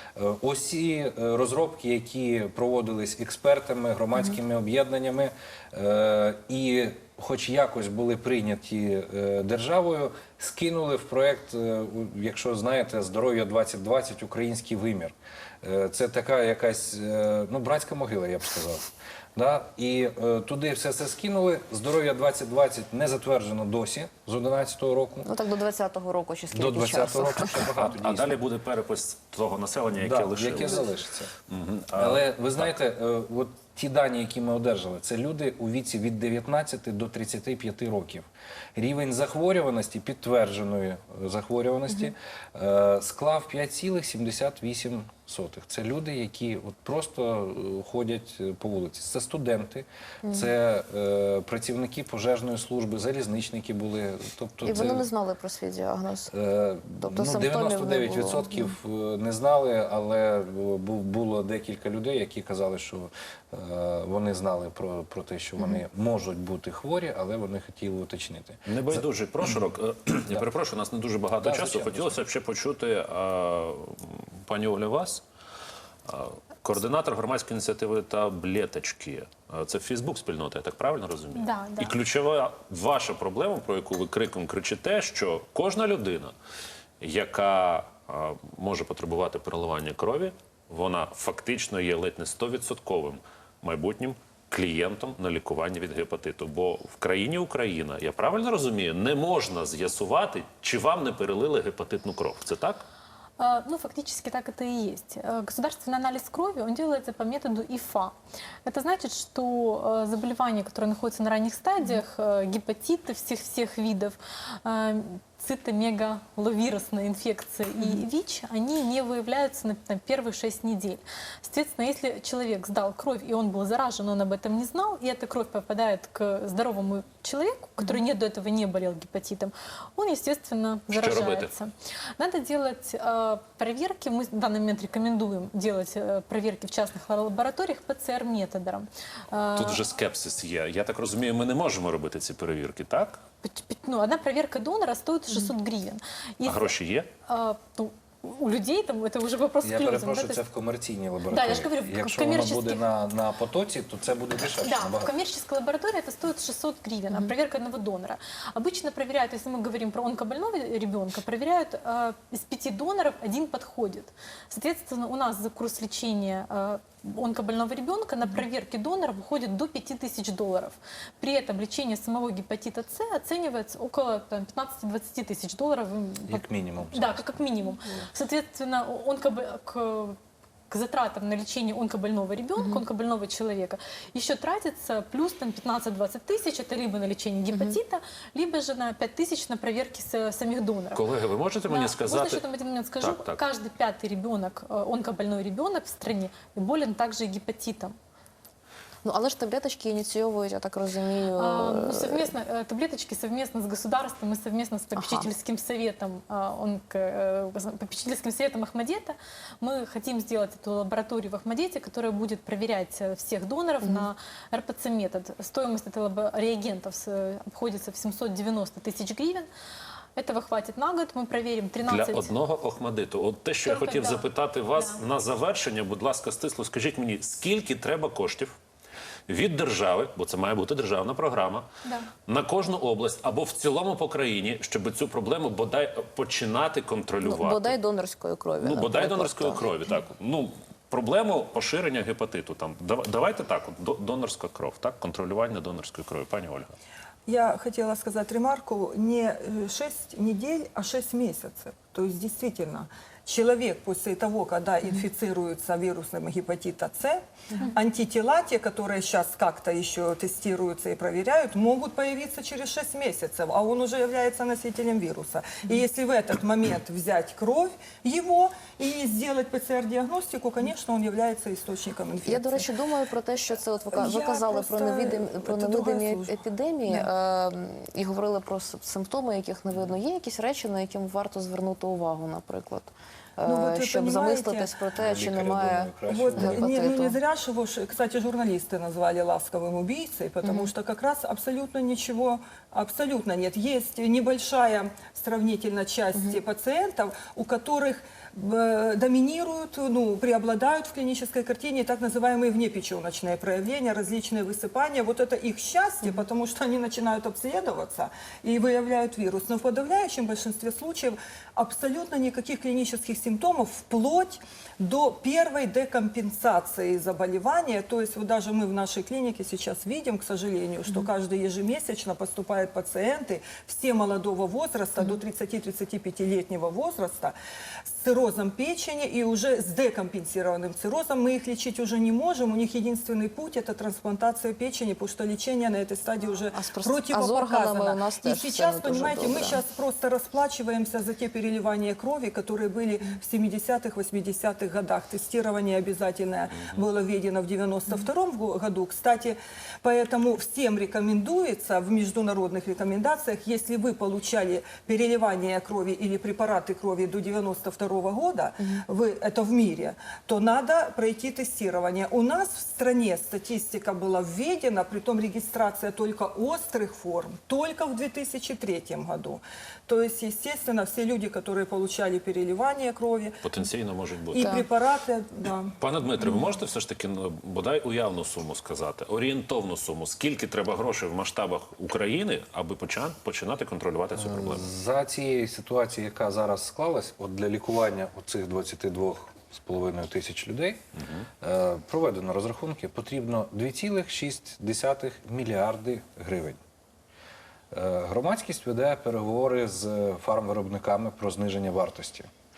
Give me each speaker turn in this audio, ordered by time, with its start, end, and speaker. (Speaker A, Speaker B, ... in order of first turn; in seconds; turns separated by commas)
Speaker A: 0.2-25.3, Speaker B: 25.3-27.7, Speaker A: 26.5-28.4, Speaker C: 27.8-30.9, Speaker A: 29.9-31.3, Speaker C: 31.5-32.8, Speaker A: 31.9-55.1, Speaker B: 50.2-50.5, Speaker B: 54.6-56.3, Speaker A: 56.3-69.1, Speaker B: 57.0-58.7, Speaker C: 68.7-75.2, Speaker A: 71.4-72.2, Speaker C: 76.1-86.3, Speaker D: 81.4-81.9, Speaker C: 87.0-102.8, Speaker D: 103.4-108.2, Speaker D: 108.7-139.9, Speaker B: 117.8-118.0, Speaker C: 130.9-131.5, Speaker C: 139.6-143.2, Speaker D: 143.4-146.7, Speaker C: 146.4-147.1, Speaker D: 147.3-150.4, Speaker A: 149.6-155.1, Speaker D: 151.3-152.8, Speaker D: 154.6-180.2, Speaker A: 176.3-177.4, Speaker D: 180.7-191.0, Speaker B: 187.5-187.8, Speaker C: 190.9-192.5, Speaker D: 191.7-197.9, Speaker C: 193.0-193.4, Speaker B: 199.1-202.3, Speaker D: 201.4-219.5, Speaker B: 205.0-205.3, Speaker B: 213.8-214.1, Speaker D: 220.2-222.3, Speaker C: 221.8-228.6, Speaker D: 223.7-225.0, Speaker C: 229.3-231.7, Speaker C: 232.3-237.8, Speaker B: 237.2-239.9, Speaker C: 238.6-246.7, Speaker E: 247.3-272.7, Speaker B: 272.2-287.2, Speaker E: 273.9-277.1, Speaker E: 283.4-284.7, Speaker A: 284.9-286.8, Speaker E: 286.1-327.3, Speaker B: 290.4-290.7, Speaker B: 296.1-296.4, Speaker E: 327.9-373.4, Speaker B: 336.5-339.6, Speaker C: 373.4-374.7, Speaker E: 374.3-375.7, Speaker C: 375.8-384.7, Speaker B: 376.2-376.5, Speaker A: 384.2-390.8, Speaker C: 391.0-391.3, Speaker A: 391.4-396.6, Speaker A: 397.7-402.3